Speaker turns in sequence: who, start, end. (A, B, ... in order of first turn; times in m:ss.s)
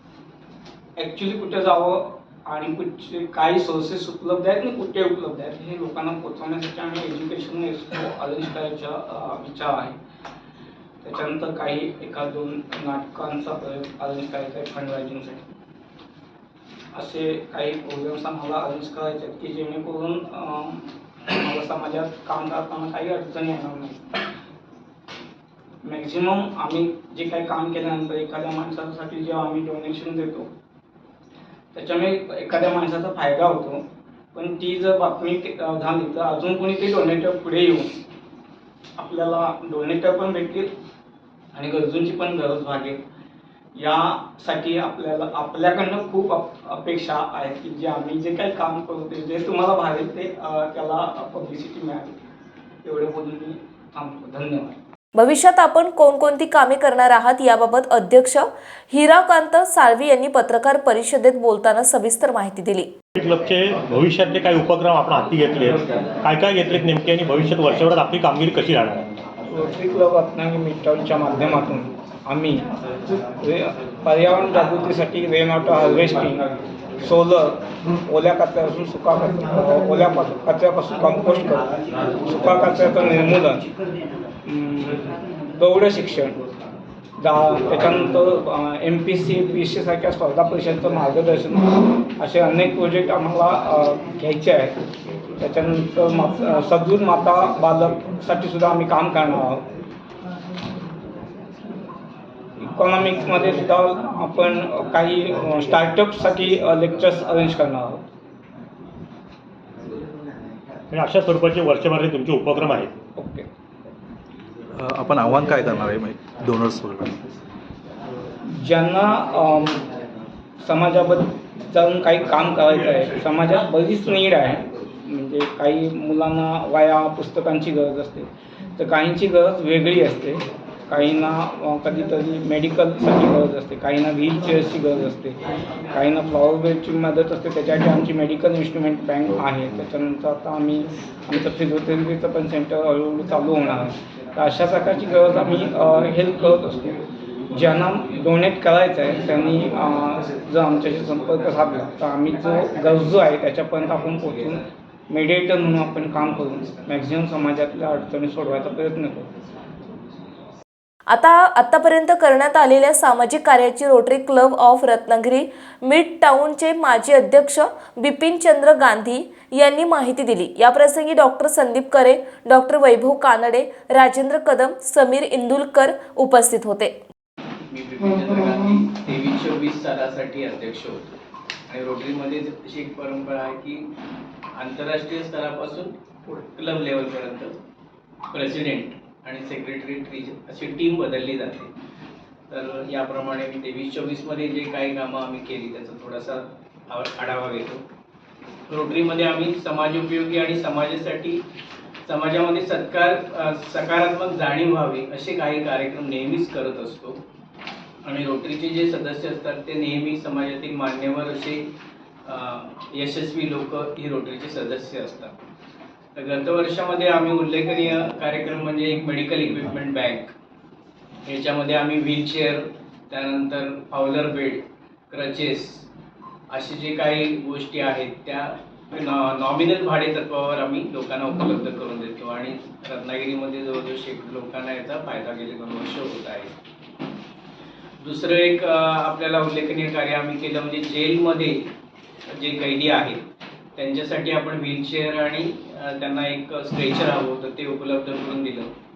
0:01.0-0:10.0 A
0:11.0-0:15.5 A
0:16.9-0:24.0 A
0:25.8-0:30.5 A
0:31.7-0:33.8 A
0:34.3-0:37.9 A
0:39.0-0:40.7 A
0:41.5-0:43.0 A
0:43.7-0:52.2 A
0:52.8-0:54.7 A
0:55.1-1:02.9 B
1:03.2-1:09.1 C
1:09.5-1:12.7 A
1:13.4-1:23.6 A
1:24.4-1:26.4 A
1:27.2-1:34.8 A
1:35.4-1:39.6 A
1:42.6-1:48.0 A
1:50.9-1:52.9 C
1:53.2-1:53.4 A
1:54.7-1:57.2 D
1:58.5-1:59.8 A
2:00.6-2:15.4 A
2:15.9-2:27.0 A
2:27.5-2:39.3 A
2:41.1-2:57.0 B
2:57.7-3:01.1 E
3:01.7-3:03.9 E
3:04.5-3:07.5 E
3:08.3-3:11.7 E
3:12.5-3:17.8 E
3:18.7-3:21.4 E
3:22.0-3:27.2 E
3:28.0-3:31.6 E
3:32.2-3:35.4 E
3:36.1-3:40.3 E
3:41.2-3:45.9 E
3:46.5-3:56.5 E
3:58.0-4:01.7 E
4:02.4-4:03.2 E
4:03.8-4:08.7 E